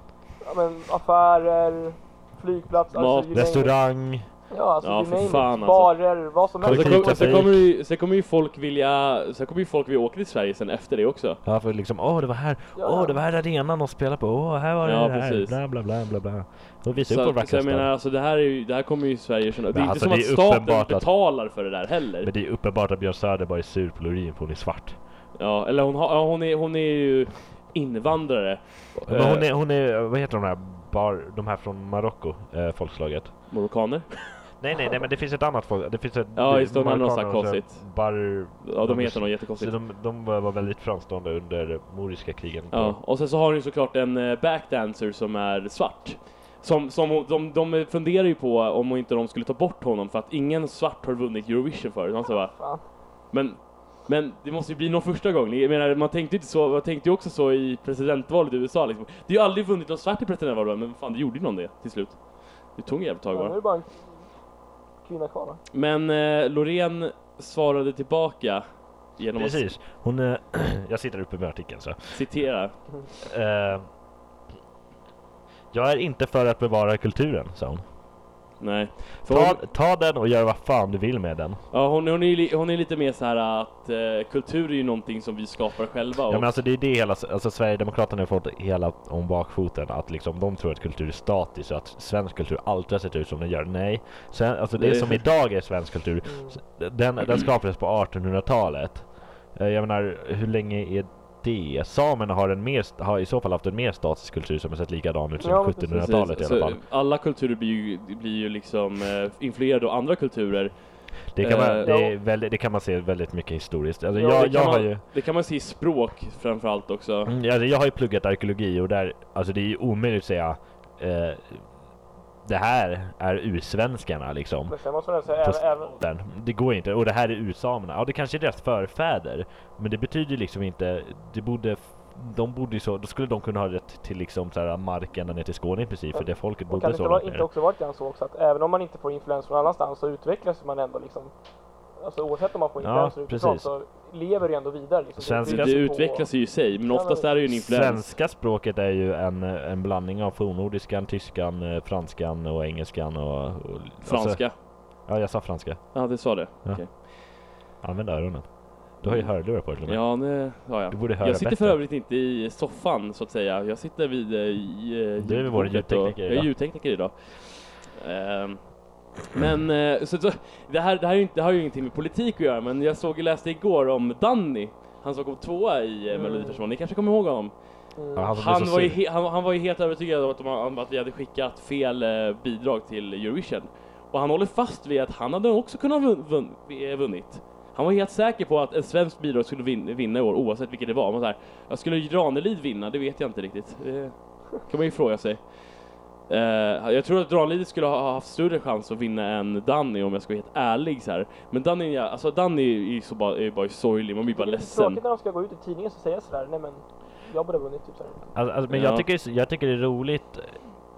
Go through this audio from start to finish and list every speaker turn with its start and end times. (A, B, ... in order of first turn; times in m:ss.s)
0:00.4-0:03.8 A
0:02.9-0:03.4 B
0:03.3-0:04.3 C
0:04.5-0:07.4 A
0:04.8-0:06.0 B
0:06.6-0:07.7 C
0:06.6-0:11.4 B
0:11.4-0:17.9 C
0:12.8-0:13.2 A
0:14.8-0:15.6 B
0:17.0-0:22.3 B
0:19.7-0:21.1 C
0:22.2-0:25.0 C
0:25.4-0:29.5 B
0:29.1-0:33.5 C
0:33.5-0:34.4 B
0:34.6-0:43.0 C
0:36.4-0:38.0 B
0:38.6-0:39.8 B
0:42.7-1:03.6 B
0:52.5-0:52.8 A
1:03.3-1:04.2 A
1:05.0-1:05.6 A
1:05.7-1:08.6 B
1:09.2-1:09.6 B
1:09.4-1:12.2 C
1:12.1-1:12.8 B
1:13.2-1:13.9 C
1:15.7-1:17.8 C
1:18.6-1:19.6 B
1:19.3-1:21.6 C
1:21.7-1:26.5 B
1:26.3-1:46.8 C
1:34.8-1:35.2 B
1:36.2-1:36.6 A
1:45.4-1:46.0 A
1:45.9-1:51.9 B
1:51.4-1:55.0 C
1:51.8-1:52.1 A
1:54.1-1:57.3 B
1:57.3-2:01.7 C
2:02.4-2:04.8 C
2:04.7-2:05.9 A
2:05.3-2:17.5 C
2:16.1-2:21.3 A
2:22.0-2:27.3 A
2:22.8-2:23.7 C
2:25.2-2:25.8 C
2:25.4-2:28.1 B
2:27.5-2:34.5 C
2:34.0-2:34.6 B
2:35.0-2:36.1 C
2:35.9-2:37.0 B
2:36.6-2:37.0 C
2:37.8-2:40.2 C
2:39.0-2:57.5 B
2:40.9-2:41.8 C
2:45.2-2:46.5 C
2:56.1-2:56.6 A
2:58.0-2:58.3 A
2:58.2-2:59.0 C
2:58.3-3:15.4 B
3:16.3-3:25.0 B
3:24.3-3:28.3 A
3:28.4-3:30.6 C
3:28.7-3:29.1 B